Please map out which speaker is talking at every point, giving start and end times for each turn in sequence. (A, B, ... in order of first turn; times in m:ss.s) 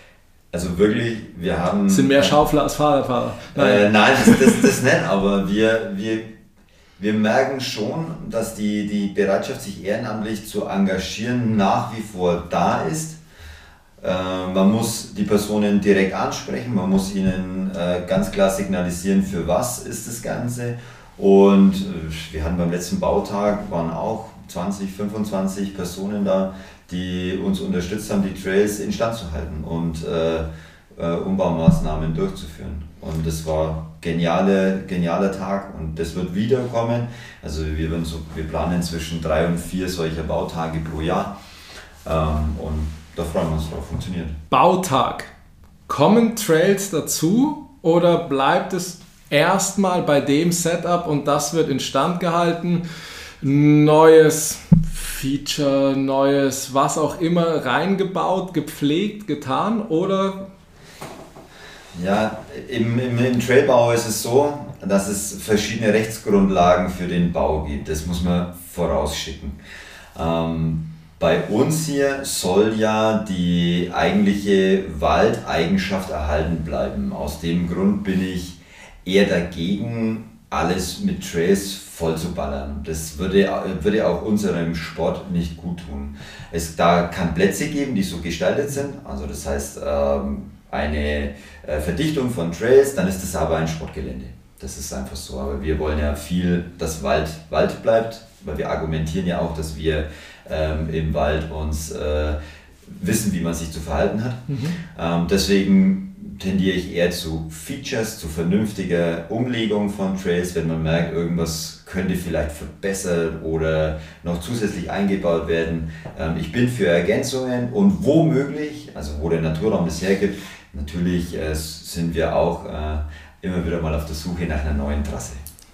0:00.5-0:02.4 A
0:01.9-0:04.7 B
0:03.6-0:06.3 A
0:07.0-0:13.2 A
0:14.0-0:41.3 A
0:42.0-0:44.4 A
0:44.5-0:45.3 B
0:45.9-0:52.8 B
0:53.4-1:00.5 B
1:01.9-1:09.6 A
1:10.2-2:05.4 A
1:44.5-1:44.8 B